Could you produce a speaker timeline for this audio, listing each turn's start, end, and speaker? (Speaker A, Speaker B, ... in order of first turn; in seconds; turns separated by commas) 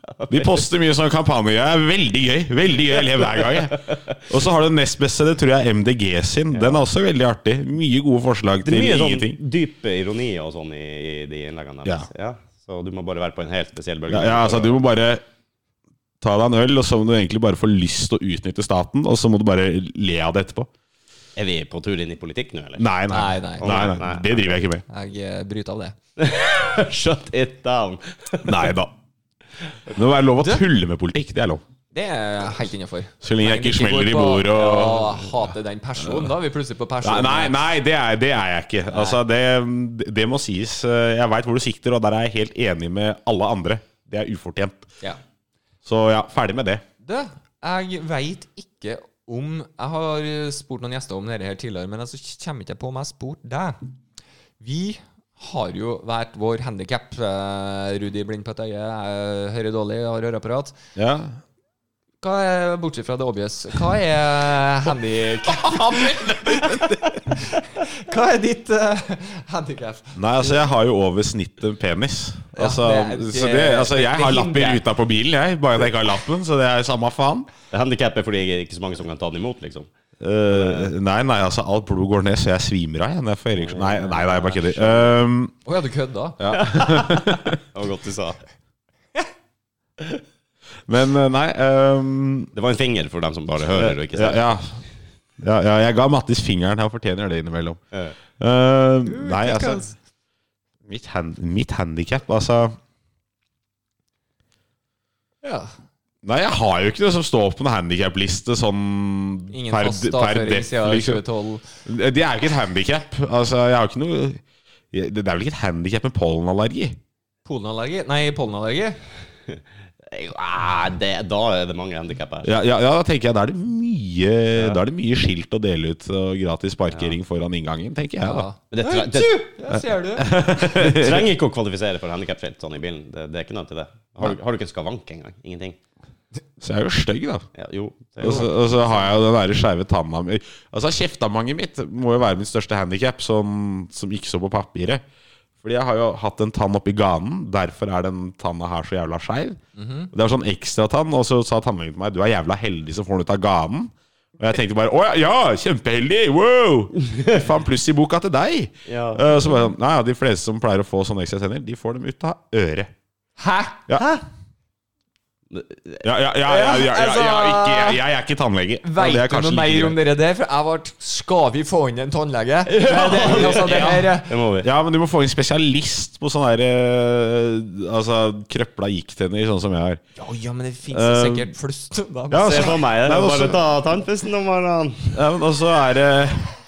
Speaker A: 0.2-0.6, Speaker B: 0.3-9.4, Speaker A: 3.2-4.2, Speaker A: 6.5-6.8, Speaker A: 8.6-14.8, Speaker B: 14.1-15.2, Speaker B: 16.2-20.7, Speaker A: 21.4-22.9, Speaker B: 22.8-24.8, Speaker C: 23.1-23.7, Speaker A: 23.6-24.6, Speaker C: 24.9-25.9, Speaker A: 26.2-28.7, Speaker B: 28.4-28.9, Speaker B: 29.9-31.6, Speaker C: 30.4-30.6, Speaker C: 31.9-37.5, Speaker B: 33.2-35.4, Speaker B: 36.0-36.3, Speaker B: 37.0-44.9, Speaker C: 38.9-39.2, Speaker B: 45.8-46.8, Speaker C: 47.0-53.8, Speaker C: 54.6-60.8, Speaker B: 61.0-61.4, Speaker C: 62.2-70.5, Speaker B: 65.4-67.2, Speaker B: 70.2-77.5, Speaker C: 72.5-74.8, Speaker A: 77.7-79.9, Speaker B: 80.2-85.5, Speaker A: 80.5-80.9, Speaker A: 83.5-85.2, Speaker C: 85.6-86.4, Speaker B: 86.4-87.6, Speaker A: 86.5-88.4, Speaker B: 90.9-92.5, Speaker A: 92.5-94.5, Speaker B: 93.7-94.8, Speaker B: 95.4-97.8, Speaker B: 98.4-99.9, Speaker C: 99.1-99.9, Speaker B: 100.8-102.8, Speaker C: 105.4-105.7, Speaker B: 106.2-111.2, Speaker C: 109.5-111.6, Speaker B: 111.8-114.4, Speaker B: 114.9-117.0, Speaker C: 117.4-119.0, Speaker A: 119.5-122.5, Speaker B: 122.4-128.5, Speaker A: 124.5-124.8, Speaker C: 128.2-130.3, Speaker A: 128.7-129.4, Speaker B: 129.7-131.3, Speaker A: 130.4-135.8, Speaker B: 136.6-137.4, Speaker A: 137.5-138.9, Speaker B: 138.2-145.0, Speaker B: 145.6-149.6, Speaker C: 149.8-150.1, Speaker B: 150.1-162.9, Speaker A: 158.9-159.5, Speaker C: 163.4-163.8, Speaker A: 164.0-164.2, Speaker A: 165.5-166.0, Speaker B: 166.0-170.0, Speaker C: 166.4-168.0, Speaker C: 168.8-174.3, Speaker A: 172.7-174.7, Speaker B: 173.1-180.0, Speaker C: 180.2-182.8, Speaker B: 180.9-181.5, Speaker B: 182.3-183.6, Speaker A: 182.3-185.2, Speaker B: 185.1-186.5